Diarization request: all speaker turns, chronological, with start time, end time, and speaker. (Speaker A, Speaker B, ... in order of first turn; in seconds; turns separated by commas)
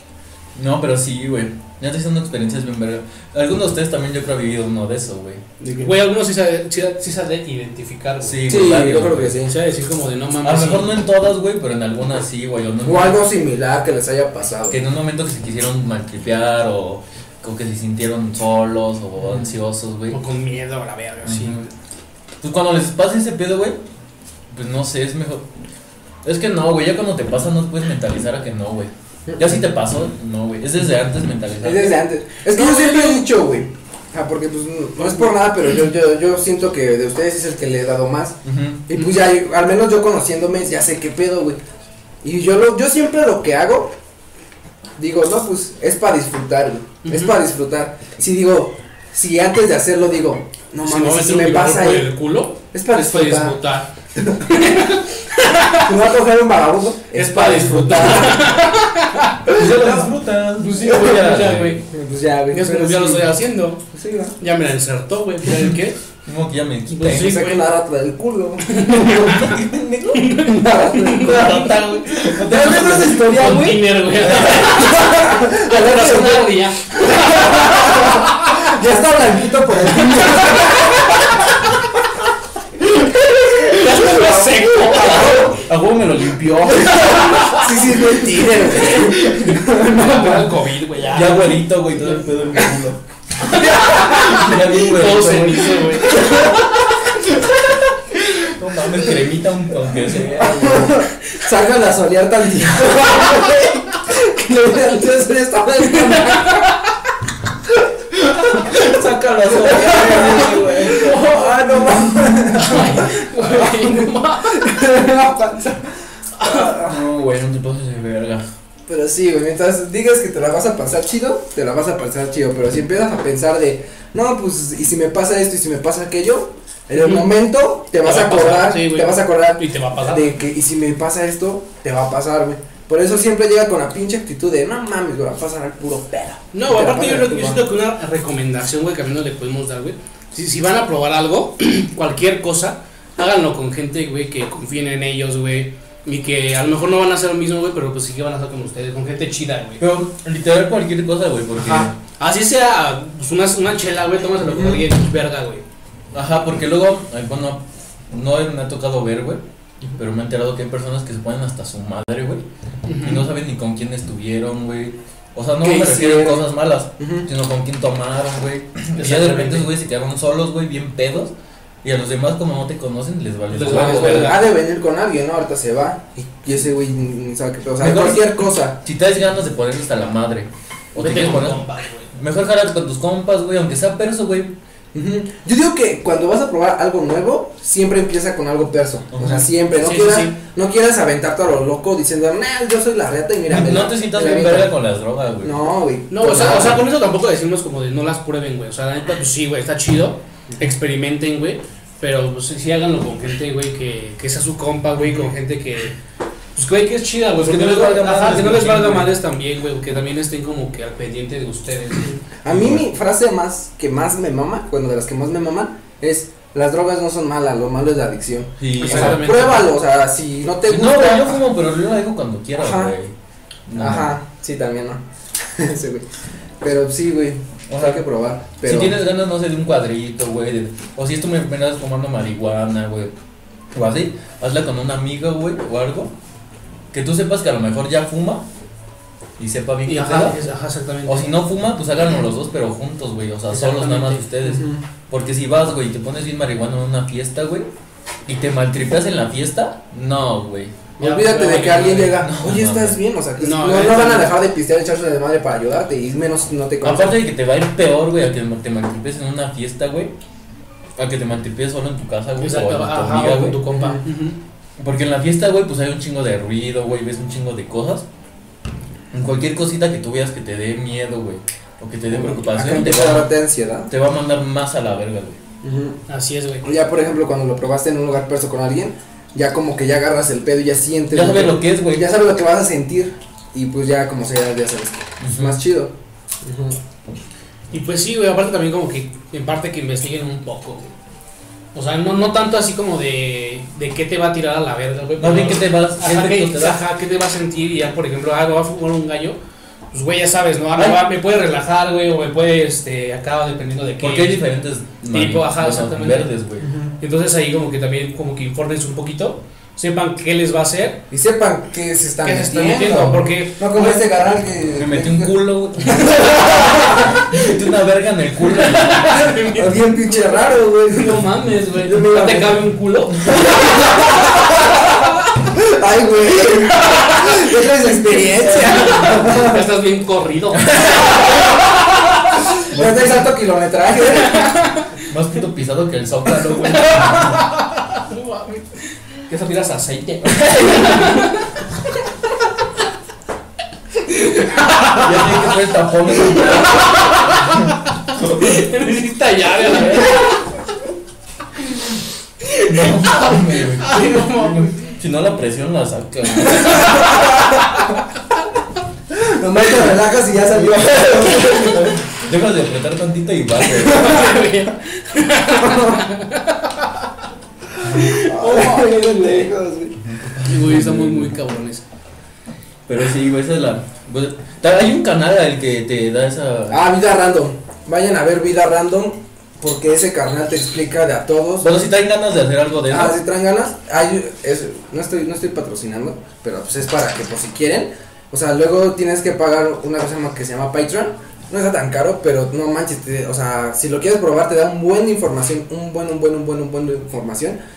Speaker A: 0.5-5.4, Speaker B: 5.6-5.9, Speaker C: 5.7-8.5, Speaker A: 8.2-9.4, Speaker B: 8.5-9.5, Speaker C: 9.4-11.0, Speaker A: 10.4-13.2, Speaker B: 12.8-14.8, Speaker A: 14.7-20.2, Speaker B: 19.2-19.5, Speaker C: 20.1-21.7, Speaker A: 21.2-21.7, Speaker A: 22.4-23.8, Speaker A: 24.5-25.5, Speaker A: 26.2-31.9, Speaker B: 29.3-29.6, Speaker B: 31.6-38.4, Speaker C: 32.5-33.3, Speaker A: 38.4-38.8, Speaker B: 38.9-41.6, Speaker B: 42.2-43.9, Speaker B: 45.0-52.1, Speaker C: 47.0-47.4, Speaker C: 50.8-53.9, Speaker B: 52.7-53.6, Speaker B: 54.1-54.9, Speaker C: 54.4-55.9, Speaker B: 55.8-58.7, Speaker C: 57.1-59.5, Speaker B: 59.5-60.1, Speaker A: 59.5-61.8, Speaker C: 60.6-61.8, Speaker B: 61.9-63.3, Speaker C: 62.5-63.8, Speaker B: 63.9-64.3, Speaker C: 64.4-66.0, Speaker A: 65.5-65.7, Speaker A: 66.2-67.4, Speaker C: 66.9-67.6, Speaker B: 67.0-69.5, Speaker C: 68.7-69.6, Speaker A: 69.1-70.4, Speaker C: 70.1-71.6, Speaker B: 70.4-81.2, Speaker A: 71.1-74.8, Speaker C: 73.2-78.7, Speaker C: 83.4-85.6, Speaker B: 83.7-85.2, Speaker A: 84.9-87.6, Speaker C: 86.8-88.0, Speaker B: 86.8-90.5, Speaker C: 88.7-92.2, Speaker A: 88.8-89.5, Speaker A: 91.1-96.5, Speaker C: 93.4-96.9, Speaker B: 93.8-94.3, Speaker A: 98.1-101.0, Speaker B: 100.4-106.8, Speaker A: 102.8-103.8, Speaker C: 105.9-106.8, Speaker A: 108.1-111.2, Speaker B: 108.6-117.0, Speaker C: 110.9-111.5, Speaker C: 112.5-114.6, Speaker C: 116.4-116.7, Speaker A: 116.6-118.5, Speaker B: 118.9-137.6, Speaker C: 127.0-127.3, Speaker C: 128.0-130.4, Speaker C: 136.5-149.8, Speaker A: 149.8-151.9, Speaker C: 151.5-155.6, Speaker B: 154.4-154.8, Speaker A: 156.1-159.4, Speaker A: 160.0-162.4, Speaker C: 162.8-163.3, Speaker A: 163.0-174.4, Speaker B: 165.6-166.4, Speaker B: 167.0-167.3, Speaker C: 169.0-169.7, Speaker C: 173.5-174.4, Speaker B: 173.7-178.8, Speaker A: 177.8-181.6, Speaker C: 181.0-182.1, Speaker A: 182.1-184.5, Speaker B: 184.9-194.7, Speaker A: 189.1-189.5, Speaker C: 189.8-190.3, Speaker A: 193.5-195.6, Speaker B: 195.4-196.8, Speaker C: 196.1-205.9, Speaker C: 206.6-212.2, Speaker A: 207.4-209.2, Speaker B: 212.1-221.4, Speaker A: 212.5-212.8, Speaker A: 218.6-219.4, Speaker C: 218.8-219.7, Speaker A: 220.7-223.1, Speaker B: 222.6-222.9, Speaker A: 223.7-224.2, Speaker B: 223.8-226.0, Speaker B: 226.6-229.0, Speaker A: 227.7-228.0, Speaker A: 228.6-233.1, Speaker A: 233.7-236.1, Speaker A: 236.9-238.4, Speaker A: 239.4-240.4, Speaker C: 239.8-241.3, Speaker A: 241.0-247.7, Speaker C: 243.5-244.2, Speaker B: 244.4-244.8, Speaker A: 248.2-250.8, Speaker C: 251.0-252.2, Speaker B: 251.0-257.2, Speaker A: 252.2-253.0, Speaker C: 253.4-254.3, Speaker A: 256.8-260.1, Speaker A: 261.0-263.6, Speaker C: 262.4-264.4, Speaker B: 263.2-264.1, Speaker A: 264.8-268.1, Speaker A: 269.1-273.3, Speaker B: 272.1-273.9, Speaker A: 273.9-275.4, Speaker B: 275.6-276.0, Speaker C: 276.1-276.6, Speaker B: 276.6-286.8, Speaker A: 281.1-282.1, Speaker A: 285.2-285.6, Speaker C: 287.7-290.9, Speaker C: 291.7-299.4, Speaker A: 295.2-296.8, Speaker C: 299.9-304.4, Speaker A: 300.7-301.0, Speaker A: 304.0-306.7, Speaker C: 305.1-306.3, Speaker B: 306.6-306.9, Speaker C: 307.0-311.0, Speaker B: 311.1-317.6, Speaker C: 312.2-313.9, Speaker A: 314.7-319.4, Speaker C: 318.4-319.9, Speaker B: 319.2-321.2, Speaker C: 320.8-324.1, Speaker B: 321.8-322.7, Speaker B: 323.2-329.6, Speaker C: 326.8-327.3, Speaker C: 328.1-331.5, Speaker A: 328.9-329.3, Speaker A: 330.6-331.4, Speaker B: 332.6-334.6, Speaker A: 332.7-333.2, Speaker C: 334.1-334.9, Speaker A: 335.1-337.4, Speaker C: 336.5-341.6, Speaker A: 340.2-341.3, Speaker C: 344.0-345.4, Speaker A: 344.9-347.7, Speaker C: 346.3-350.5, Speaker C: 352.4-354.8, Speaker A: 352.6-357.5, Speaker C: 356.4-357.9, Speaker B: 356.9-357.6, Speaker B: 359.1-362.1, Speaker A: 360.5-364.2, Speaker C: 363.7-367.0, Speaker B: 365.6-366.0, Speaker C: 367.8-369.5, Speaker B: 368.0-370.0, Speaker A: 370.1-371.4, Speaker C: 370.4-371.8, Speaker A: 372.9-376.8, Speaker B: 376.7-381.7, Speaker A: 381.6-383.2, Speaker B: 382.9-397.6